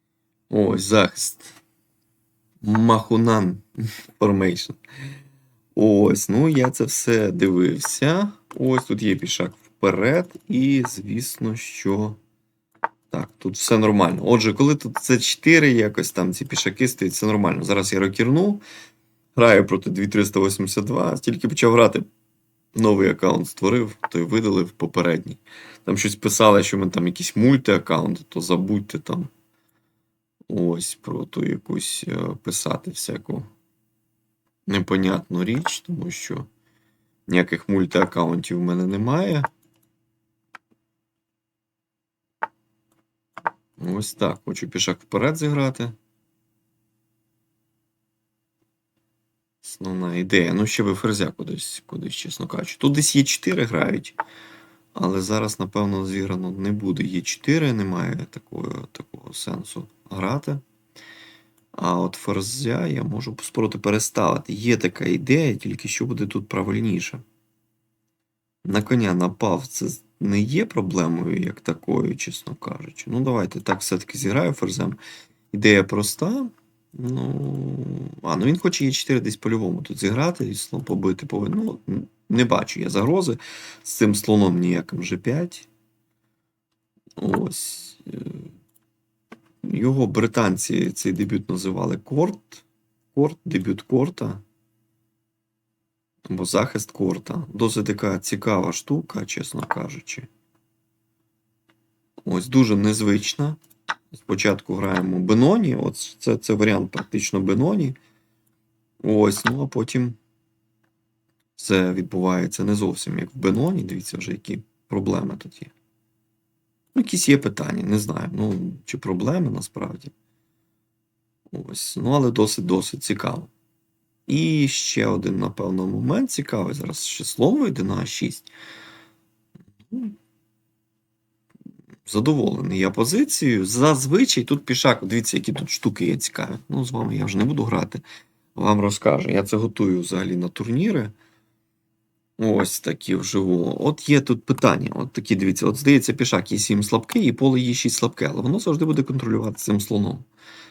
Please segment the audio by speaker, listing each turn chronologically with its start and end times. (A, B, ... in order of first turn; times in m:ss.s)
0:00.5-0:01.6 A
0:02.6-0:03.6 A
0:04.2-0:04.8 A
0:05.7-0:12.2 A
0:13.1-0:18.6 A
0:19.3-0:22.1 A
0:22.7-0:29.3 A
0:30.5-0:33.5 A
0:34.7-0:36.5 A
0:37.3-0:39.5 A
0:43.8-0:46.0 A
0:49.6-0:54.2 A
0:54.9-1:00.6 A
1:01.7-1:07.2 A
1:08.6-1:15.0 A
1:15.5-1:25.7 A
1:27.2-1:28.5 A
1:29.6-1:34.4 A
1:36.2-1:40.3 A
1:42.2-1:43.6 A
1:44.1-1:48.0 A
1:49.0-1:50.2 A
1:51.6-1:55.7 A
1:56.9-2:00.1 A
2:01.5-2:03.5 A
2:04.3-2:08.5 A
2:09.9-2:10.2 A
2:12.0-2:18.0 A
2:18.5-2:21.1 A
2:22.4-2:30.3 A